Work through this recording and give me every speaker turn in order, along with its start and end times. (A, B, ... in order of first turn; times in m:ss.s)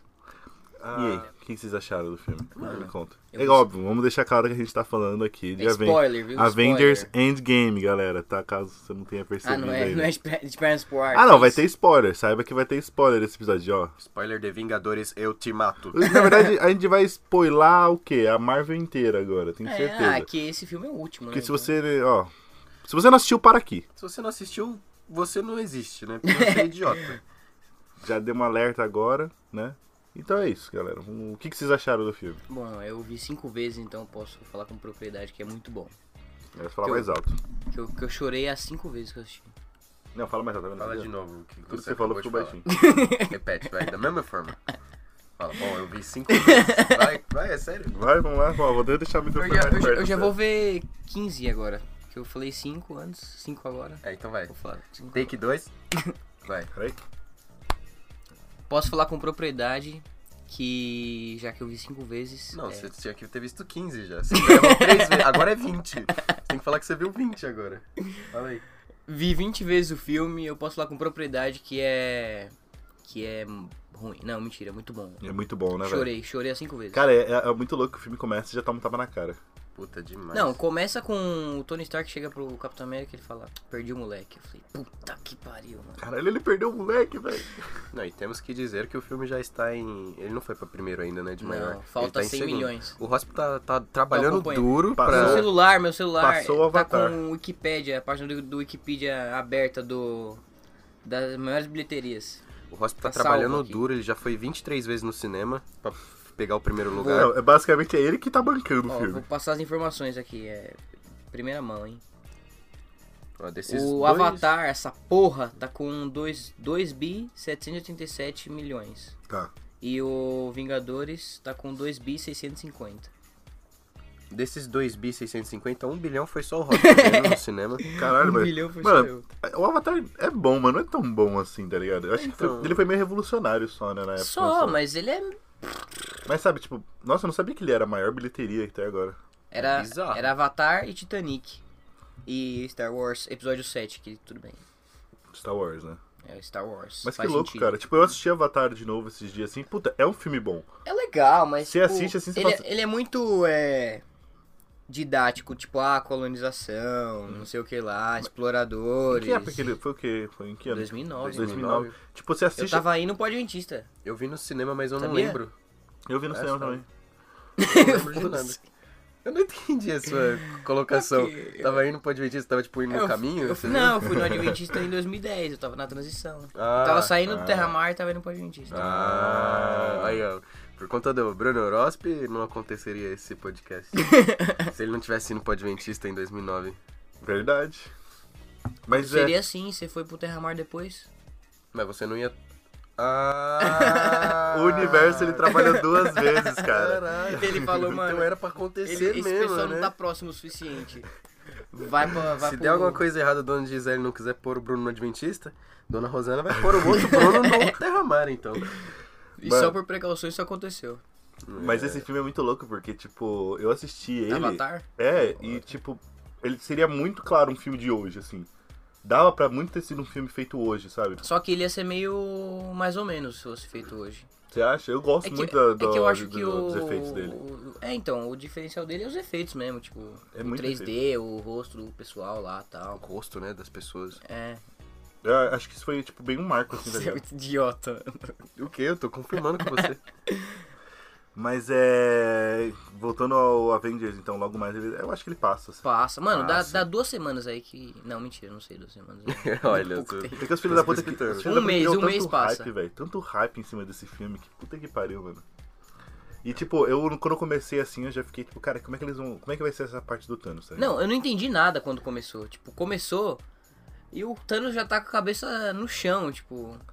0:00.8-0:10.1 A
0:00.9-0:01.3 B
0:02.6-0:02.9 B
0:02.6-0:03.7 C
0:05.6-0:07.1 C
0:09.4-0:11.6 C
0:11.1-0:13.9 A
0:14.0-0:16.1 B
0:15.9-0:20.3 A
0:19.6-0:21.7 C
0:21.3-0:22.3 A
0:22.8-0:23.8 A
0:24.0-0:27.2 B
0:26.3-0:27.1 C
0:28.0-0:32.4 A
0:32.5-0:35.9 C
0:36.5-0:37.4 A
0:37.7-0:39.5 C
0:40.1-0:41.1 A
0:40.8-0:42.6 B
0:41.7-0:42.6 A
0:42.6-0:43.3 C
0:43.2-0:44.6 B
0:45.4-0:47.9 B
0:46.3-0:47.0 C
0:47.9-0:50.3 A
0:49.4-0:55.3 C
0:54.0-0:54.5 B
0:55.1-0:55.7 B
0:56.4-0:56.7 B
0:56.7-0:57.0 A
0:58.7-1:02.9 C
1:02.5-1:08.6 B
1:04.3-1:05.0 C
1:09.1-1:12.5 C
1:13.0-1:15.2 C
1:15.2-1:16.1 A
1:15.8-1:17.0 C
1:16.9-1:19.4 A
1:19.7-1:20.6 B
1:20.3-1:26.0 C
1:26.0-1:27.8 A
1:27.9-1:35.5 B
1:31.4-1:32.9 C
1:34.1-1:40.4 C
1:35.0-1:35.6 A
1:36.2-1:37.2 A
1:41.0-1:42.4 C
1:42.7-1:47.3 B
1:43.0-1:43.8 C
1:46.9-1:47.3 C
1:47.1-1:49.2 A
1:48.9-1:50.8 C
1:51.3-1:52.0 C
1:53.4-1:54.5 B
1:53.7-1:59.2 C
1:59.8-2:03.1 C
2:04.3-2:07.9 B
2:06.7-2:09.2 C
2:07.9-2:14.8 A
2:12.2-2:12.8 B
2:14.2-2:15.7 C
2:16.2-2:19.2 A
2:19.5-2:21.6 C
2:19.6-2:20.3 B
2:22.2-2:24.6 C
2:25.3-2:26.0 A
2:26.2-2:27.8 C
2:27.0-2:30.6 A
2:30.8-2:34.0 C
2:31.6-2:32.7 A
2:34.9-2:39.7 C
2:39.1-2:42.8 A
2:40.7-2:41.8 C
2:41.2-2:41.9 B
2:42.6-2:43.9 C
2:44.0-2:45.5 B
2:45.0-2:45.4 C
2:46.1-2:46.9 A
2:46.3-2:46.8 B
2:47.6-2:48.6 C
2:47.6-2:48.6 B
2:49.2-2:54.2 B
2:50.9-2:51.8 C
2:52.9-2:58.8 C
2:54.1-2:54.6 A
2:56.5-2:57.2 B
2:57.2-2:57.7 A
2:58.7-3:06.8 B
2:58.7-3:00.2 A
3:04.0-3:04.7 C
3:07.2-3:07.9 A
3:08.8-3:09.4 A
3:08.9-3:11.1 C
3:11.7-3:12.4 B
3:13.0-3:15.7 B
3:13.6-3:14.4 C
3:14.5-3:17.5 A
3:15.1-3:16.4 C
3:16.6-3:19.9 B
3:17.3-3:18.3 C
3:18.8-3:21.1 C
3:21.7-3:23.0 C
3:22.4-3:28.9 B
3:27.0-3:27.7 C
3:29.4-3:31.0 C
3:29.4-3:29.7 A
3:31.4-3:32.0 B
3:31.5-3:38.5 A
3:34.3-3:35.7 C
3:39.0-3:41.2 A
3:41.2-3:44.3 C
3:44.5-3:47.4 A
3:45.2-3:53.0 C
3:50.3-3:50.9 A
3:52.9-3:54.2 B
3:54.2-3:54.6 C
3:55.2-3:57.2 A
3:56.8-3:58.5 C
3:58.6-4:00.0 B
3:59.6-4:00.6 C
4:01.3-4:06.9 A
4:05.8-4:12.7 C
4:09.3-4:11.5 B
4:10.4-4:15.4 A
4:16.4-4:21.0 A
4:20.8-4:23.4 C
4:24.1-4:26.8 C